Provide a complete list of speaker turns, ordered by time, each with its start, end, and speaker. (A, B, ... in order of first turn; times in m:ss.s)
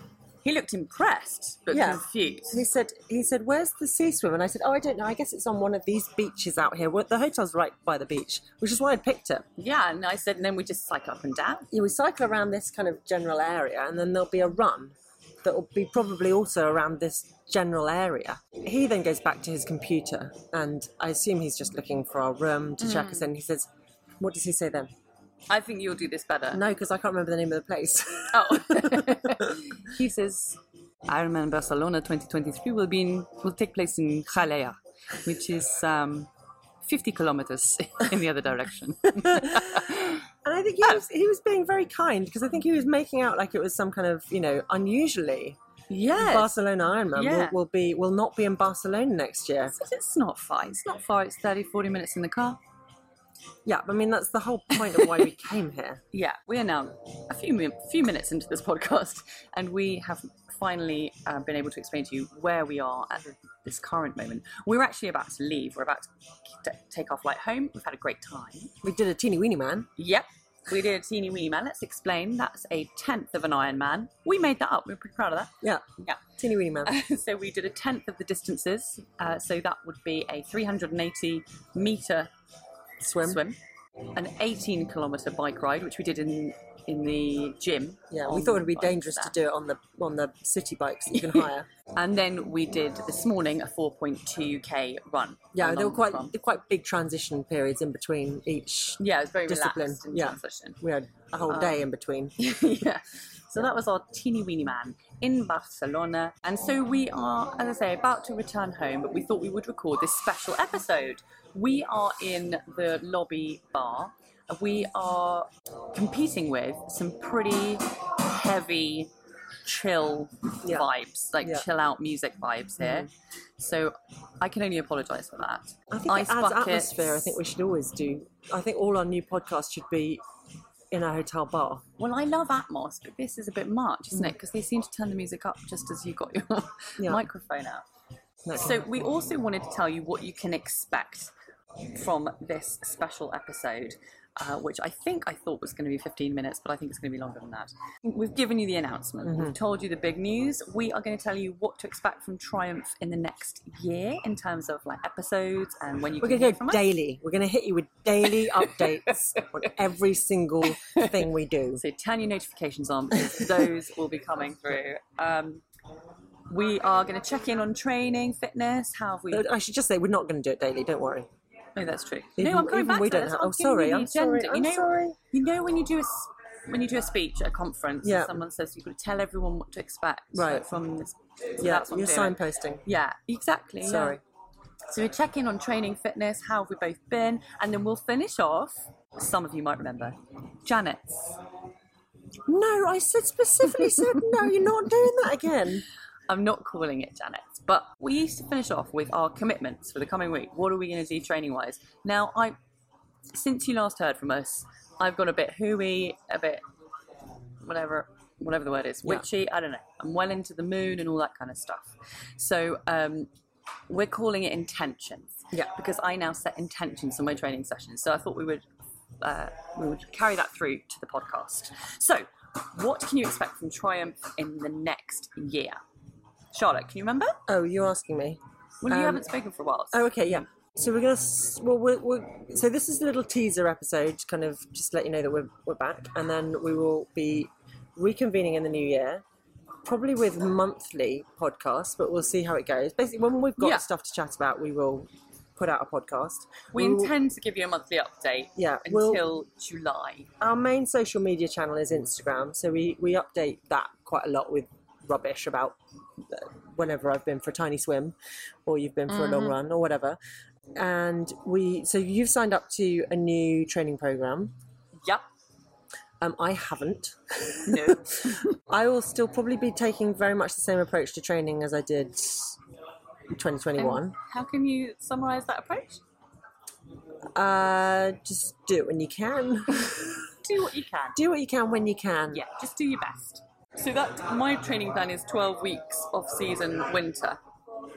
0:00.4-0:02.6 A
0:01.7-0:09.4 B
0:09.6-0:11.7 A
0:11.7-0:23.7 B
0:22.8-0:23.3 A
0:24.2-0:24.9 B
0:25.5-0:26.6 A
0:26.5-0:29.5 B
0:28.3-0:36.3 A
0:36.8-0:40.2 A
0:39.2-0:45.6 B
0:45.9-0:46.5 A
0:46.1-0:49.7 B
0:47.1-0:47.6 A
0:49.7-0:52.6 A
0:53.6-0:56.0 B
0:56.1-1:08.7 A
1:08.8-1:09.9 B
1:10.0-1:16.2 A
1:16.4-1:16.9 B
1:16.8-1:22.3 A
1:23.0-1:23.4 B
1:23.2-1:23.6 A
1:24.1-1:29.3 A
1:28.1-1:31.7 B
1:31.2-1:36.3 A
1:35.5-1:42.3 B
1:39.0-1:40.8 A
1:41.5-1:41.8 A
1:42.4-1:59.1 A
1:59.6-2:07.4 A
2:02.8-2:03.0 B
2:05.9-2:10.2 B
2:10.9-2:11.8 B
2:12.0-2:17.8 A
2:18.4-2:19.0 B
2:18.5-2:21.3 A
2:21.9-2:36.9 A
2:29.2-2:29.5 B
2:36.2-2:41.8 B
2:40.8-2:41.2 A
2:41.8-2:45.6 A
2:46.5-2:49.5 A
2:49.3-2:51.3 B
2:51.8-3:04.2 A
2:52.4-2:55.2 B
2:58.0-2:58.4 B
3:00.3-3:00.6 B
3:01.6-3:02.8 B
3:03.8-3:04.2 B
3:04.9-3:11.4 A
3:12.5-3:15.8 B
3:16.3-3:22.6 A
3:23.3-3:26.6 A
3:27.6-3:33.3 A
3:33.9-3:38.6 A
3:39.2-3:45.8 A
3:46.5-3:47.4 A
3:47.5-3:49.2 B
3:48.8-3:50.0 A
3:49.9-3:59.2 B
3:59.8-4:07.1 B
4:03.6-4:03.8 A
4:06.7-4:10.3 A
4:08.6-4:09.2 B
4:10.4-4:15.8 B
4:16.3-4:20.2 B
4:19.1-4:19.6 A
4:20.8-4:24.5 B
4:26.2-4:32.6 B
4:27.6-4:28.5 A
4:33.3-4:34.1 B
4:33.8-4:36.0 A
4:37.3-4:40.3 B
4:40.4-4:41.2 A
4:41.2-4:42.4 B
4:42.3-4:47.4 A